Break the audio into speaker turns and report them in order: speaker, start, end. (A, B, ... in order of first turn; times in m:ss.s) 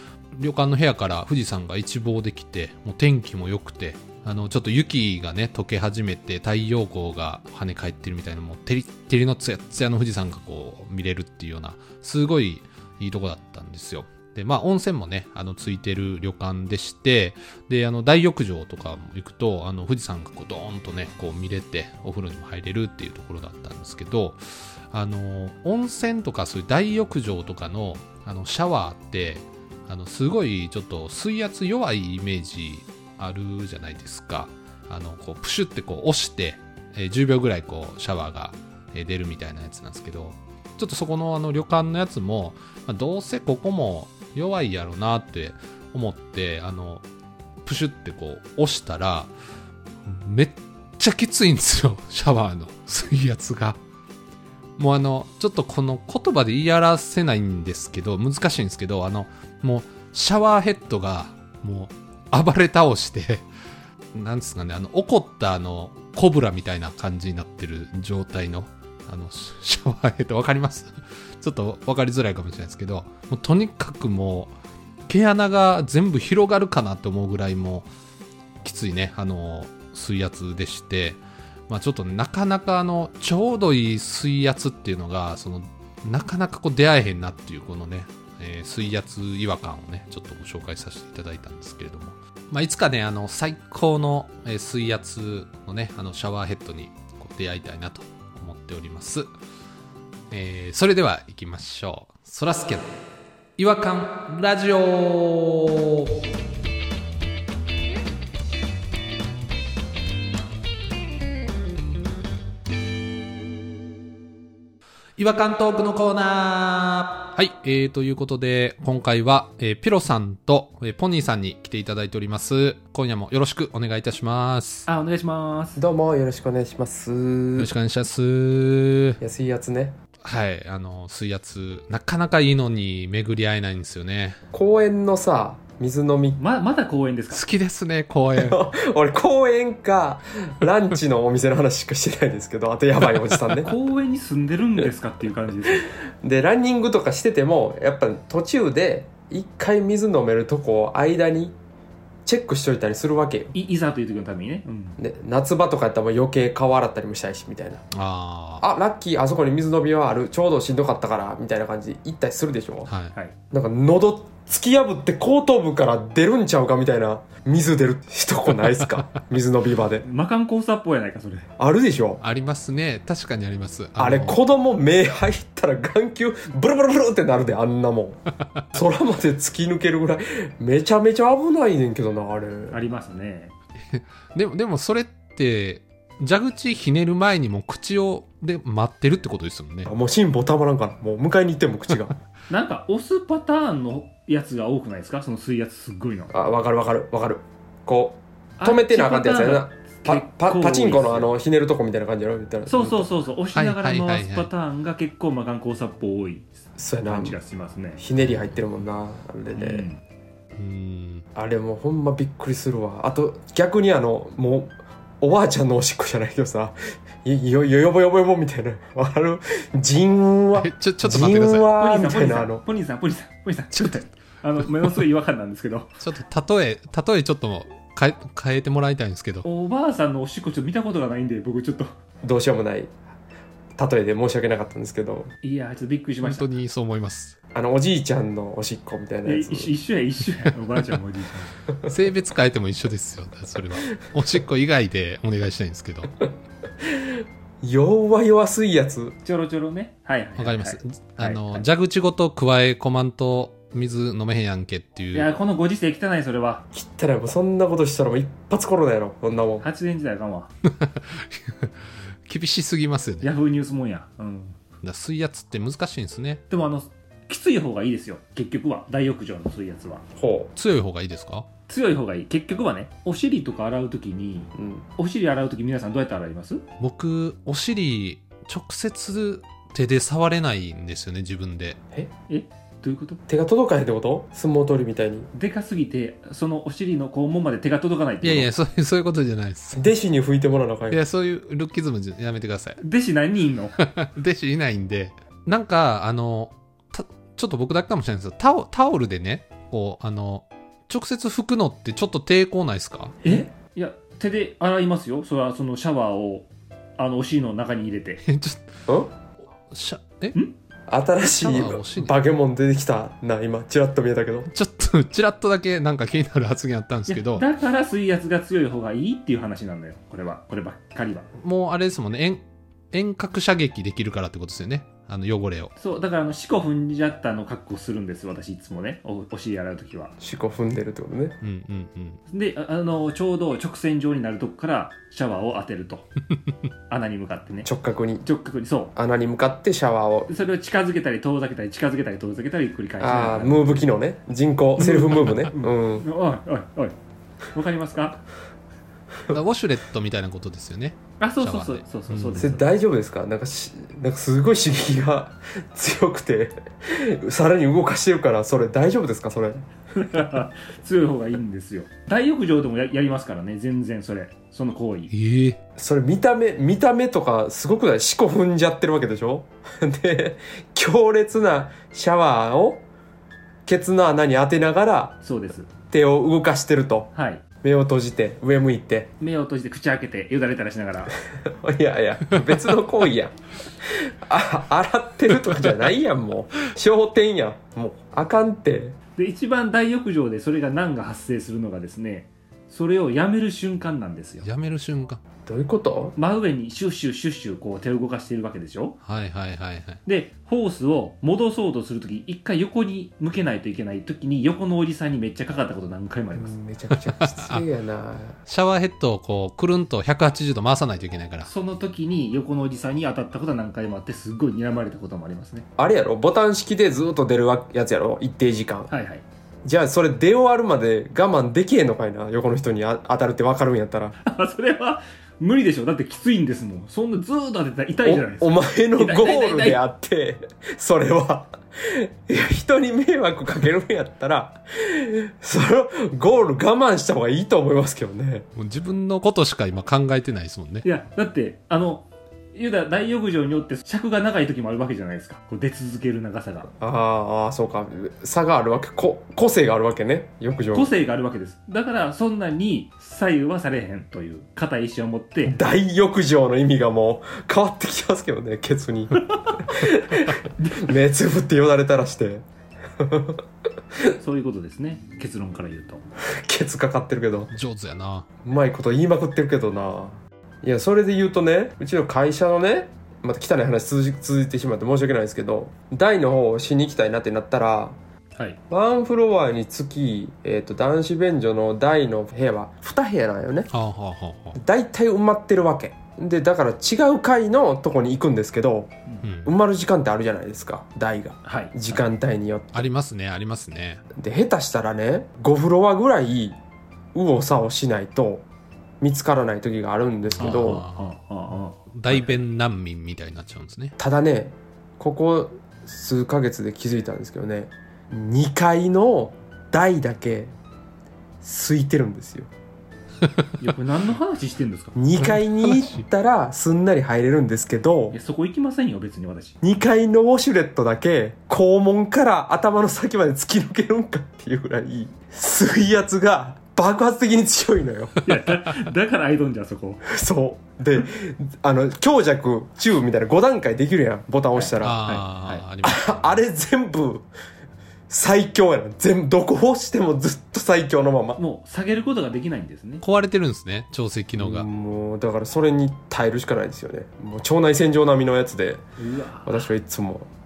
0:00.4-0:24.4 A
0:24.9-0:47.0 A
0:47.6-0:49.3 A
0:50.0-0:53.8 A
0:54.8-1:03.5 A
1:04.1-1:14.5 A
1:15.1-1:17.9 A
1:18.6-1:39.3 A
1:40.3-1:43.0 A
1:43.6-1:46.1 A
1:55.2-2:04.9 A
2:04.9-2:05.8 B
2:05.8-2:07.7 C
2:07.6-2:09.2 A
2:09.2-2:10.0 C
2:10.2-2:14.4 A
2:14.5-2:16.4 C
2:16.4-2:17.4 B
2:17.3-2:18.7 A
2:18.4-2:23.7 C
2:23.6-2:25.9 B
2:26.2-2:31.6 C
2:32.3-2:33.5 C
2:33.5-2:35.0 B
2:35.0-2:37.8 C
2:37.9-2:38.6 A
2:38.6-2:42.9 C
2:42.9-2:43.1 A
2:43.5-2:50.0 C
2:50.0-2:51.5 B
2:51.6-2:52.2 C
2:52.2-2:54.4 A
2:54.0-2:58.2 C
2:58.7-3:02.8 C
3:02.7-3:03.5 B
3:03.9-3:09.9 A
3:09.8-3:12.2 C
3:12.5-3:16.4 B
3:16.3-3:23.1 C
3:18.6-3:21.4 B
3:22.7-3:28.0 B
3:23.5-3:24.5 A
3:26.8-3:27.4 C
3:28.0-3:29.9 C
3:28.2-3:28.6 A
3:29.5-3:30.0 B
3:30.6-3:31.2 A
3:31.4-3:42.6 C
3:40.6-3:41.7 A
3:41.8-3:45.9 B
3:46.0-3:49.5 A
3:49.4-3:51.9 B
3:52.2-3:53.0 C
3:53.8-3:55.3 C
3:55.4-3:56.5 B
3:56.2-3:57.4 A
3:57.5-3:59.7 C
3:59.2-4:01.6 B
4:01.8-4:06.3 A
4:07.6-4:09.2 C
4:09.2-4:11.7 B
4:10.4-4:15.3 A
4:15.1-4:16.6 B
4:16.7-4:19.6 C
4:19.6-4:20.5 B
4:20.8-4:21.7 A
4:22.3-4:23.3 A
4:23.2-4:24.6 B
4:24.8-4:26.4 A
4:26.5-4:30.0 B
4:30.2-4:30.5 C
4:30.6-4:31.5 A
4:31.7-4:36.6 B
4:34.6-4:34.8 C
4:36.8-4:41.8 A
4:42.3-4:43.2 B
4:43.3-4:45.3 C
4:45.3-4:48.5 B
4:48.2-4:49.9 A
4:49.8-4:51.0 C
4:50.9-4:52.8 A
4:52.8-4:53.8 B
4:53.8-5:03.1 A
5:03.2-5:03.5 C
5:03.2-5:08.2 B
5:08.3-5:08.7 A
5:08.9-5:09.1 C
5:09.7-5:10.4 A
5:10.9-5:14.5 C
5:11.2-5:12.2 A
5:14.5-5:17.5 A
5:17.1-5:21.3 B
5:21.4-5:25.7 A
5:25.8-5:30.1 B
5:30.2-5:31.4 C
5:31.4-5:32.2 A
5:32.3-5:36.1 B
5:36.9-5:37.7 B
5:37.6-5:38.2 C
5:38.2-5:38.9 B
5:39.0-5:40.3 C
5:40.3-5:43.9 B
5:43.0-5:46.1 C
5:44.8-5:47.0 B
5:47.5-5:48.2 B
5:49.3-5:52.5 A
5:51.2-5:52.7 B
5:52.4-5:59.7 C
6:00.0-6:05.1 B
6:05.1-6:05.6 A
6:05.8-6:12.8 C
6:13.7-6:15.2 C
6:15.2-6:15.7 B
6:15.9-6:17.1 C
6:17.1-6:17.4 B
6:17.6-6:19.1 C
6:19.2-6:21.2 B
6:21.3-6:23.4 C
6:23.9-6:29.0 C
6:29.2-6:34.5 B
6:34.4-6:35.2 A
6:35.5-6:36.2 C
6:36.2-6:39.0 B
6:39.0-6:40.0 A
6:40.1-6:46.5 B
6:46.3-6:48.4 C
6:47.2-6:47.6 A
6:48.5-6:51.5 A
6:51.4-6:55.7 B
6:55.8-6:58.9 C
6:58.9-6:59.2 B
6:59.6-7:04.2 C
7:04.2-7:09.8 B
7:08.0-7:18.5 C
7:18.6-7:20.9 A
7:20.8-7:26.7 B
7:26.8-7:30.9 C
7:30.7-7:35.6 B
7:35.5-7:42.4 C
7:40.6-7:40.9 B
7:43.0-7:43.4 C
7:44.2-7:46.0 B
7:46.4-7:47.5 C
7:47.5-7:48.3 A
7:48.4-7:58.0 C
7:58.7-8:03.7 C
8:03.7-8:04.6 A
8:04.6-8:08.9 C
8:09.2-8:09.5 A
8:09.4-8:12.8 C
8:11.4-8:12.1 B
8:12.7-8:14.0 A
8:14.2-8:16.6 C
8:17.2-8:18.4 C
8:19.0-8:20.8 C
8:20.3-8:21.1 A
8:20.4-8:22.3 B
8:21.9-8:24.0 A
8:24.0-8:30.5 C
8:31.4-8:32.5 C
8:33.6-8:35.0 B
8:35.0-8:38.2 C
8:35.2-8:36.0 A
8:38.1-8:39.6 B
8:39.6-8:48.1 C
8:48.3-8:50.0 B
8:50.1-8:55.0 C
8:54.5-8:55.6 B
8:54.8-8:56.4 A
8:55.8-8:57.3 C
8:58.1-9:01.4 C
9:01.4-9:03.0 B
9:03.0-9:04.7 A
9:04.4-9:08.8 C
9:09.0-9:09.7 B
9:09.5-9:10.3 C